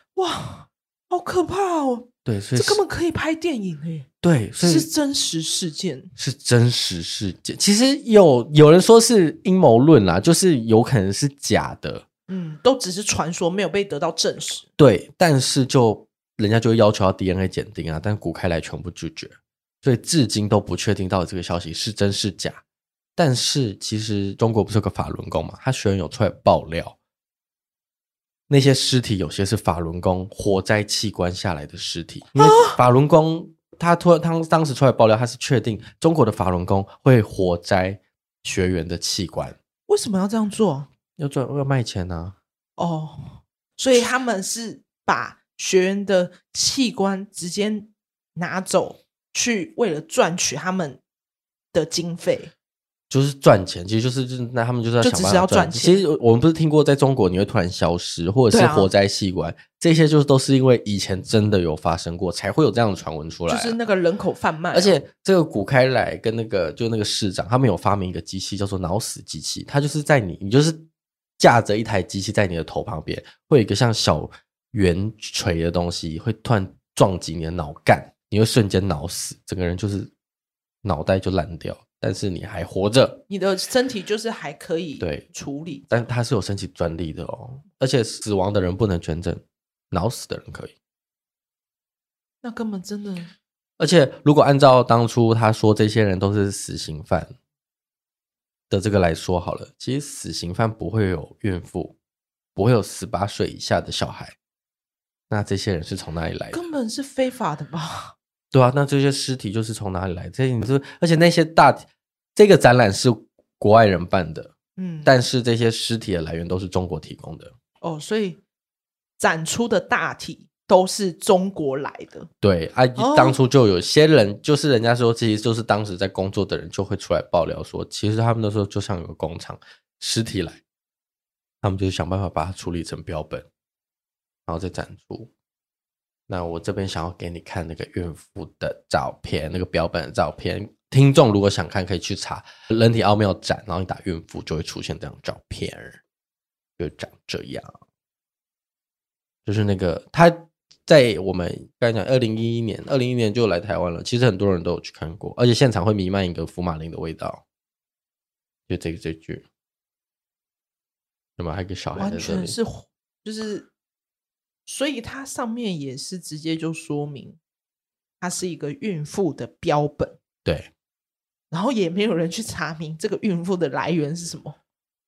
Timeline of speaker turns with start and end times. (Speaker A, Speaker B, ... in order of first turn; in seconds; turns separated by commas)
Speaker A: 0.1-4.1, Speaker B: 2.2-2.8, Speaker B: 4.2-4.9, Speaker A: 4.6-6.1, Speaker B: 6.2-12.1, Speaker A: 12.3-14.7, Speaker B: 14.8-22.6, Speaker B: 23.2-27.0, Speaker B: 28.5-39.6, Speaker A: 32.4-32.8, Speaker A: 39.9-40.9, Speaker B: 41.2-42.4, Speaker A: 42.8-51.0, Speaker A: 51.7-52.5, Speaker B: 53.1-63.8, Speaker A: 55.0-56.0, Speaker A: 58.5-58.9, Speaker A: 63.5-65.0, Speaker B: 64.7-70.9, Speaker B: 71.4-80.1, Speaker B: 80.8-83.2, Speaker A: 83.3-85.9, Speaker B: 85.0-85.3, Speaker B: 85.9-90.7, Speaker A: 92.4-93.3, Speaker B: 93.8-97.3, Speaker B: 98.7-102.0, Speaker B: 102.5-104.4, Speaker B: 105.3-106.6, Speaker A: 106.5-108.1, Speaker B: 108.5-117.5, Speaker A: 114.8-115.2, Speaker A: 117.8-118.4, Speaker A: 119.2-122.3, Speaker B: 122.4-130.6, Speaker A: 123.0-123.4, Speaker B: 131.6-133.5, Speaker B: 134.5-135.3, Speaker B: 136.3-146.0, Speaker B: 146.8-147.8, Speaker B: 149.4-157.4, Speaker B: 158.7-159.5, Speaker B: 161.4-162.6, Speaker A: 162.0-163.7, Speaker A: 164.7-167.4, Speaker A: 168.2-170.2, Speaker B: 170.4-170.7, Speaker A: 171.5-174.6